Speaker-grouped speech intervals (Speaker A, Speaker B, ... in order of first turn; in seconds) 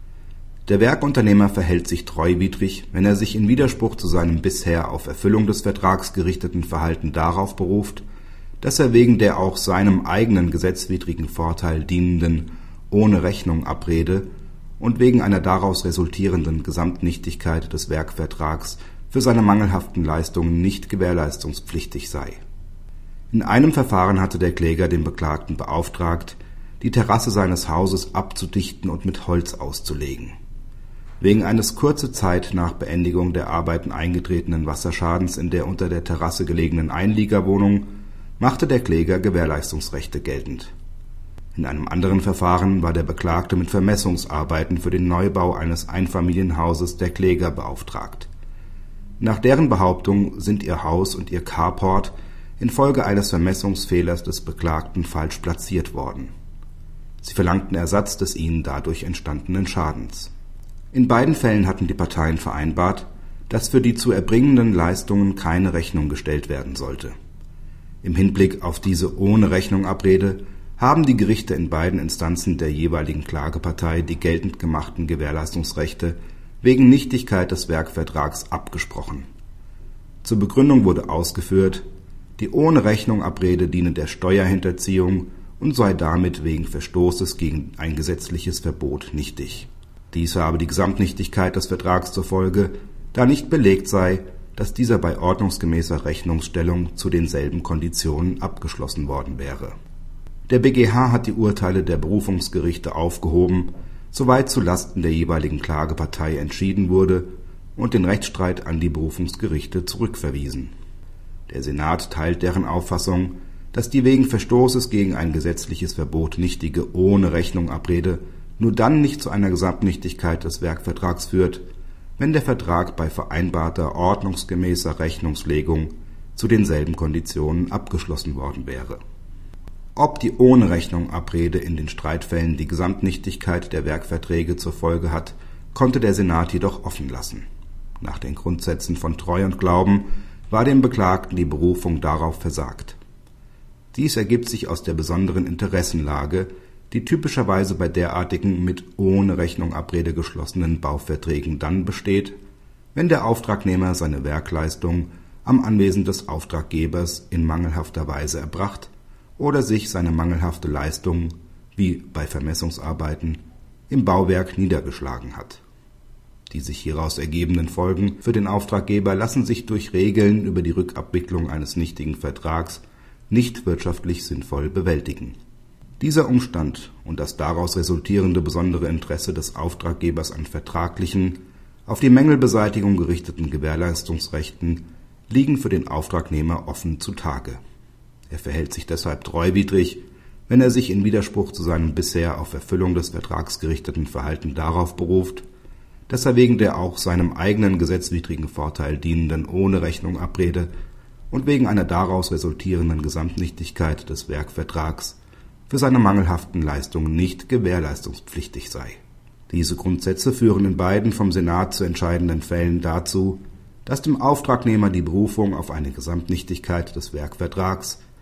Speaker A: 0.7-8.0, 8.6-14.3, 14.8-22.4, 23.3-30.4, 31.2-37.9, 38.4-40.7, 41.5-48.3, 49.2-56.3, 57.2-60.3, 60.9-67.1, 68.0-79.3, 80.2-81.8, 82.4-99.8, 100.5-110.7, 111.5-121.6, 122.2-129.0, 130.0-137.4, 138.0-143.0, 143.9-152.4, 152.9-165.6, 166.5-175.4, 176.0-187.6, 188.3-195.4, 196.1-200.7, 201.3-205.2, 205.7-209.0, 209.5-218.0